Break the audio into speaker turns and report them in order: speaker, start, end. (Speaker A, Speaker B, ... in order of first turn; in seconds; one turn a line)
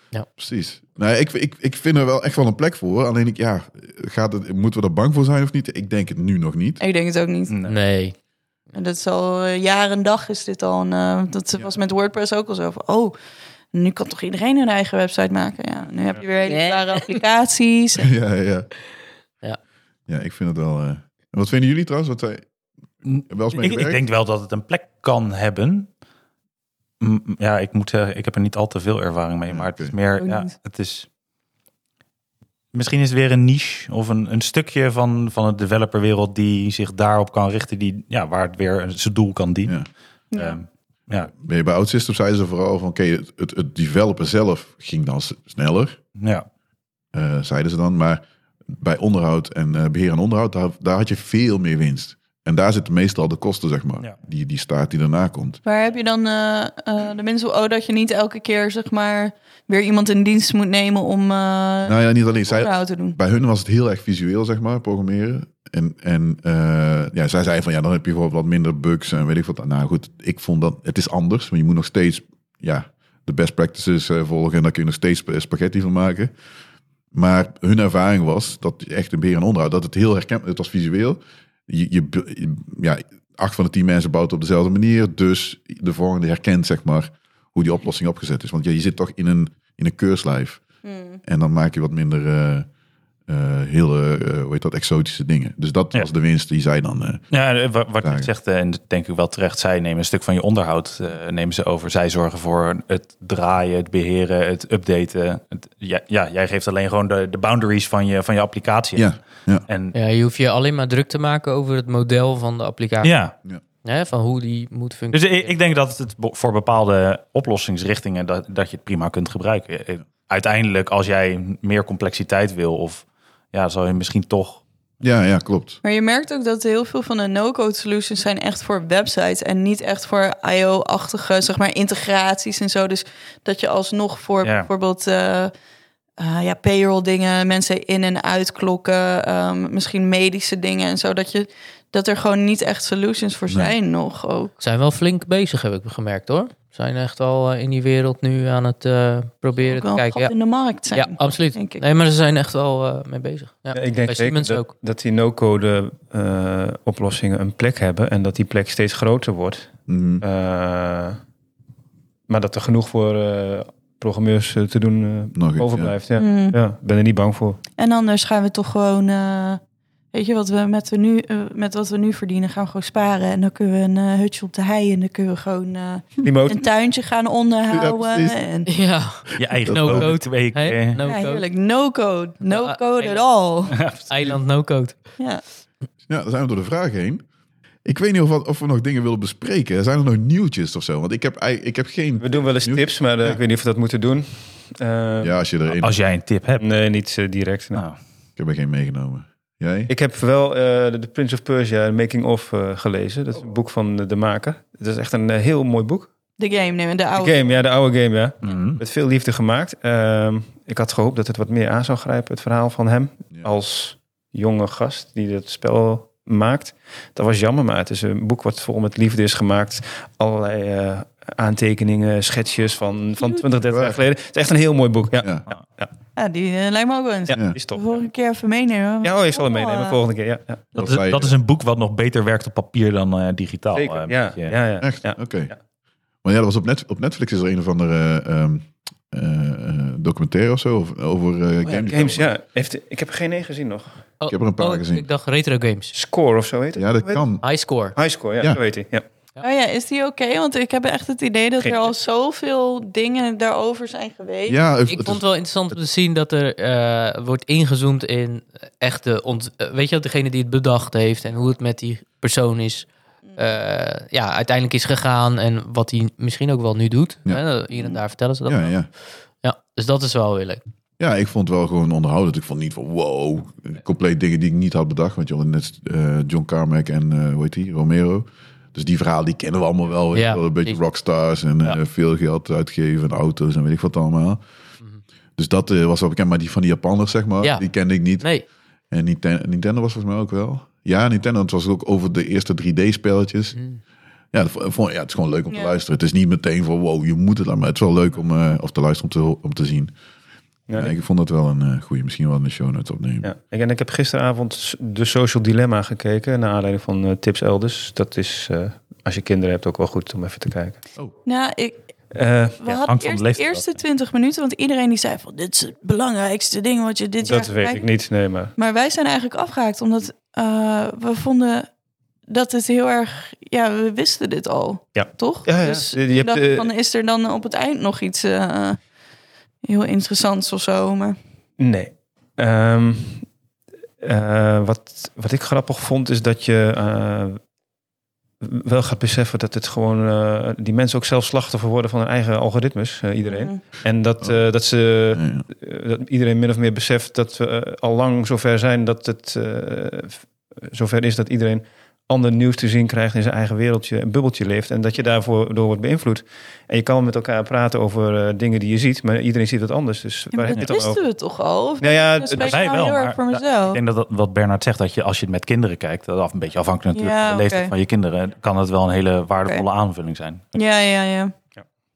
Speaker A: 0.3-6.8
Speaker B: 6.8-7.6
Speaker C: 7.5-7.8
Speaker D: 7.6-8.2
Speaker B: 8.7-13.1
Speaker B: 13.7-18.1
Speaker D: 16.4-17.2
Speaker A: 18.0-18.7
Speaker A: 20.1-22.5
Speaker C: 23.0-25.9
Speaker A: 23.1-24.0
Speaker C: 27.0-31.1
Speaker A: 29.5-29.9
Speaker B: 30.2-30.5
Speaker C: 32.7-41.3
Speaker B: 40.3-40.6
Speaker A: 41.3-46.0
Speaker C: 46.2-46.5
Speaker A: 47.1-55.6
Speaker B: 55.6-62.0
Speaker A: 61.9-76.3
Speaker B: 62.6-63.2
Speaker A: 77.1-90.6
Speaker B: 90.8-91.2
Speaker A: 91.2-92.7
Speaker A: 93.3-97.2
Speaker C: 97.3-109.9
Speaker A: 98.0-98.3
Speaker A: 109.0-109.6
Speaker D: 109.9-113.2
Speaker C: 113.0-113.3
Speaker D: 113.8-115.5
Speaker C: 115.1-124.6
Speaker A: 125.0-125.8
Speaker B: 125.8-135.5
Speaker C: 134.4-134.7
Speaker B: 136.2-144.5
Speaker A: 143.5-143.7
Speaker D: 144.6-150.3
Speaker B: 149.6-151.8
Speaker D: 150.9-154.7
Speaker E: 153.7-161.2
Speaker A: 159.9-160.2
Speaker E: 162.3-167.6
Speaker A: 165.3-165.9
Speaker B: 166.2-166.6
Speaker B: 167.8-169.6
Speaker B: 170.1-178.7
Speaker E: 176.2-176.7
Speaker A: 177.7-178.4
Speaker D: 178.7-181.5
Speaker C: 179.3-181.0
Speaker A: 179.4-180.2
Speaker B: 181.0-183.8
Speaker D: 182.4-183.3
Speaker C: 183.7-184.4
Speaker D: 183.8-185.2
Speaker B: 185.2-185.4
Speaker A: 186.1-187.2
Speaker A: 187.8-193.4
Speaker E: 192.2-195.4
Speaker A: 195.2-195.9
Speaker C: 195.8-196.7
Speaker E: 196.6-197.8
Speaker A: 198.4-199.9
Speaker E: 199.9-206.1
Speaker B: 206.4-207.4
Speaker E: 207.1-225.9
Speaker C: 208.4-208.8
Speaker B: 223.2-223.4
Speaker A: 223.7-224.0
Speaker A: 225.2-225.5
Speaker B: 226.2-230.0
Speaker E: 227.3-227.9
Speaker E: 229.0-230.7
Speaker A: 230.8-231.3
Speaker C: 230.8-234.6
Speaker E: 233.7-235.6
Speaker A: 234.8-235.6
Speaker A: 236.2-242.3
Speaker E: 241.6-244.0
Speaker D: 244.2-245.9
Speaker A: 244.3-245.1
Speaker E: 245.9-247.3
Speaker A: 246.8-247.4
Speaker D: 247.4-248.0
Speaker E: 247.9-249.0
Speaker B: 249.4-254.6
Speaker E: 251.6-251.9
Speaker A: 254.5-255.8
Speaker D: 254.9-270.6
Speaker B: 263.3-263.5
Speaker A: 267.2-268.9
Speaker A: 271.0-284.4
Speaker D: 280.1-280.8
Speaker A: 285.4-288.3
Speaker D: 287.4-288.4
Speaker A: 288.9-293.6
Speaker D: 293.5-293.8
Speaker A: 294.3-299.9
Speaker E: 300.7-300.9
Speaker A: 300.7-303.3
Speaker E: 303.2-310.9
Speaker B: 311.2-311.9
Speaker E: 312.1-312.7
Speaker B: 312.6-317.9
Speaker C: 312.8-313.8
Speaker E: 317.2-318.5
Speaker B: 318.6-321.7
Speaker B: 322.3-328.9
Speaker E: 324.9-326.7
Speaker B: 329.6-331.2
Speaker E: 331.6-333.3
Speaker E: 334.0-337.4
Speaker E: 338.4-361.0
Speaker B: 343.2-343.6
Speaker A: 344.2-344.5
Speaker A: 345.1-345.4
Speaker B: 360.3-363.8
Speaker E: 361.8-362.7
Speaker C: 362.3-370.4
Speaker B: 366.9-367.7
Speaker B: 370.5-371.3